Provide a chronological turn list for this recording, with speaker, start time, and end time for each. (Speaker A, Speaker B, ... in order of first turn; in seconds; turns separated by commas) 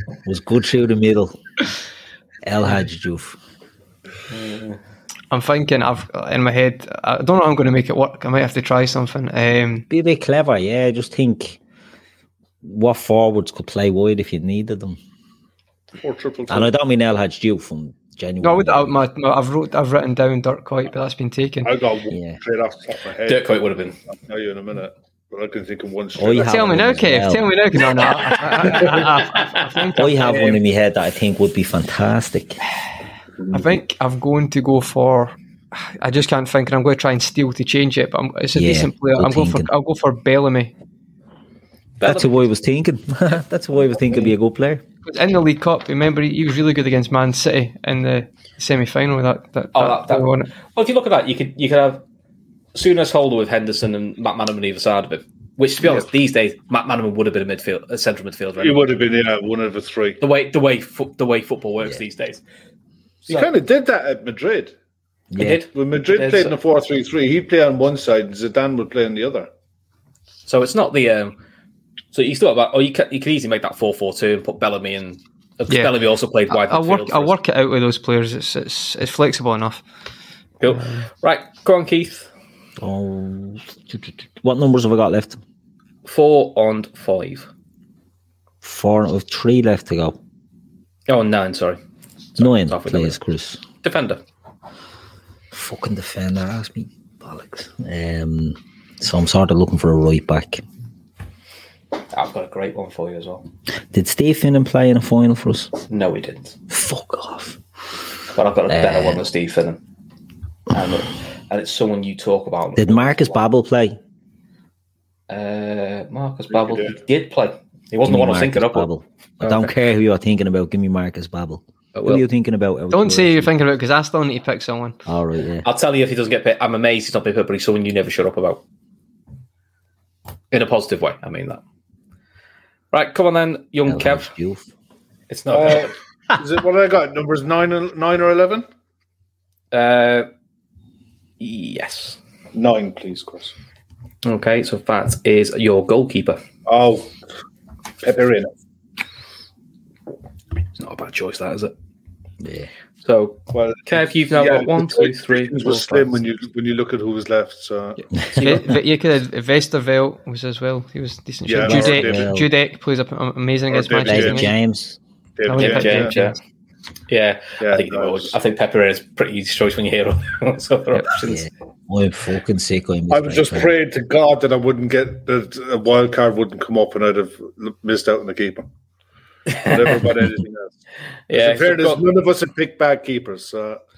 Speaker A: 0.2-1.4, Speaker A: 2.4-3.4, Speaker B: 4.3-4.8, Speaker C: 5.3-9.8, Speaker A: 9.9-11.6, Speaker A: 12.6-15.0, Speaker D: 16.0-16.7, Speaker A: 16.5-18.9, Speaker C: 18.4-21.7, Speaker D: 21.6-23.4, Speaker A: 22.1-22.4, Speaker B: 23.2-23.9, Speaker D: 24.2-26.6, Speaker A: 26.1-27.5, Speaker C: 26.4-30.6, Speaker B: 28.5-28.9, Speaker A: 29.9-32.6, Speaker C: 33.5-40.7, Speaker A: 38.5-39.7, Speaker B: 42.0-42.4, Speaker A: 42.0-44.8, Speaker C: 45.0-50.5, Speaker B: 49.7-52.0, Speaker B: 52.7-58.8, Speaker D: 58.6-60.2, Speaker B: 60.2-62.4, Speaker B: 63.2-63.5, Speaker D: 63.3-64.7, Speaker A: 65.3-65.6, Speaker B: 65.4-66.6, Speaker D: 65.7-69.5, Speaker B: 70.5-71.4, Speaker B: 72.1-77.3, Speaker C: 76.5-79.8, Speaker B: 80.6-82.3, Speaker C: 80.7-81.0, Speaker A: 82.8-85.4, Speaker B: 86.0-87.5, Speaker A: 88.6-90.2, Speaker B: 91.1-91.8, Speaker B: 92.3-93.2, Speaker A: 92.4-93.6, Speaker B: 93.8-94.2, Speaker A: 95.5-100.6, Speaker B: 102.1-103.5, Speaker A: 103.9-105.8, Speaker B: 105.9-106.6, Speaker A: 106.7-107.6, Speaker B: 108.3-109.8, Speaker A: 108.7-109.2, Speaker B: 110.7-113.4, Speaker A: 112.8-114.0, Speaker B: 115.3-118.9, Speaker D: 116.5-117.0, Speaker A: 118.0-123.5, Speaker B: 119.4-119.7, Speaker B: 121.9-122.2, Speaker C: 122.9-125.0, Speaker A: 125.0-125.7, Speaker B: 125.6-128.6, Speaker B: 130.5-131.6, Speaker B: 132.9-134.3, Speaker A: 133.8-134.7, Speaker B: 135.3-135.9, Speaker D: 135.5-138.6, Speaker B: 139.7-140.3, Speaker B: 141.4-142.2, Speaker D: 142.5-143.5, Speaker B: 144.2-146.4, Speaker D: 146.7-147.1, Speaker D: 148.0-148.5, Speaker B: 150.8-151.7, Speaker A: 152.4-152.7, Speaker B: 153.0-156.2, Speaker D: 153.5-158.5, Speaker A: 158.4-158.7, Speaker B: 158.4-158.6, Speaker C: 158.4-164.5, Speaker D: 161.5-162.3, Speaker A: 161.6-162.5, Speaker D: 163.7-164.5, Speaker A: 164.0-165.0, Speaker D: 165.4-166.1, Speaker C: 165.4-166.4, Speaker B: 165.5-166.4, Speaker B: 167.1-171.5, Speaker D: 167.6-168.4, Speaker A: 171.1-173.7, Speaker D: 173.1-178.7, Speaker B: 179.5-180.0, Speaker D: 179.6-180.7, Speaker B: 181.3-182.0, Speaker D: 181.3-183.8